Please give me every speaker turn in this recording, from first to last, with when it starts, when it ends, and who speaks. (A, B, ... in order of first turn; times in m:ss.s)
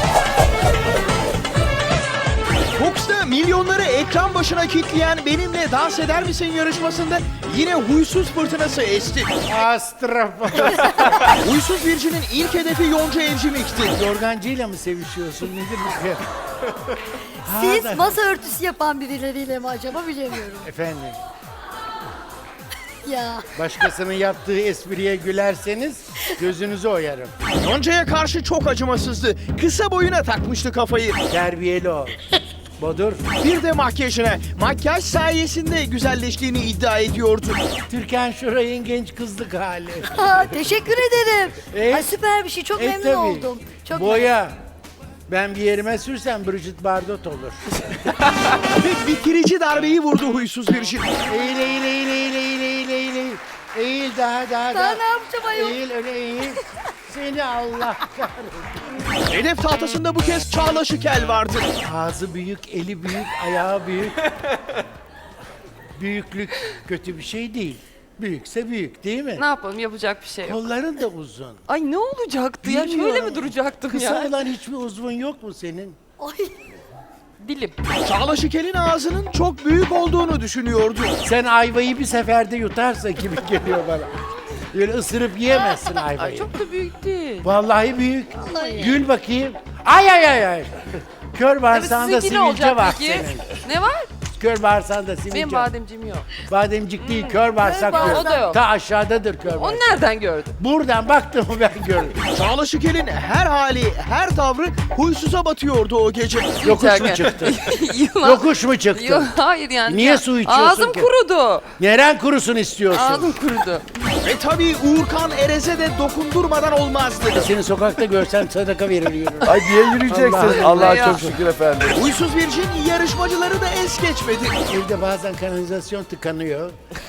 0:02.8-0:09.4 A
0:09.5-0:11.2 B
0:11.3-0:14.0 A
0:13.9-0:16.2 B
0:17.4-0:18.2 B
0:17.4-0:20.7 C
0:20.6-0:21.2 B
0:23.0-0:23.5 C
0:23.6-0:27.4 B
0:27.6-0:31.2 A
0:31.3-0:32.2 B
0:32.8-0:33.2 B
0:33.4-0:37.6 A
0:37.9-0:40.6 B
0:40.1-0:44.3 C
0:41.7-0:42.2 B
0:42.7-0:44.6 B
0:45.3-0:47.7 B
0:48.5-0:51.2 A
0:51.3-0:59.0 B
0:54.7-0:55.8 C
0:59.3-1:01.7 A
1:01.8-1:04.3 B
1:06.0-1:09.4 B
1:09.4-1:10.6 D
1:10.4-1:11.6 B
1:11.7-1:14.4 D
1:12.6-1:16.0 B
1:16.2-1:16.6 C
1:17.4-1:17.8 D
1:18.0-1:21.2 A
1:21.2-1:24.1 B
1:24.7-1:26.6 B
1:26.2-1:27.5 D
1:27.4-1:33.5 B
1:28.4-1:29.0 C
1:31.7-1:34.1 D
1:34.3-1:35.7 B
1:35.3-1:36.4 D
1:36.4-1:40.0 B
1:37.0-1:38.6 D
1:37.6-1:38.5 C
1:39.5-1:40.5 D
1:40.6-1:42.2 B
1:42.3-1:46.7 A
1:46.6-1:51.1 B
1:46.6-1:51.7 D
1:51.8-1:53.4 B
1:52.9-1:54.1 D
1:54.2-1:57.5 A
1:57.3-2:01.4 B
1:59.4-2:02.0 E
2:00.7-2:01.2 D
2:01.9-2:04.6 A
2:04.7-2:06.8 B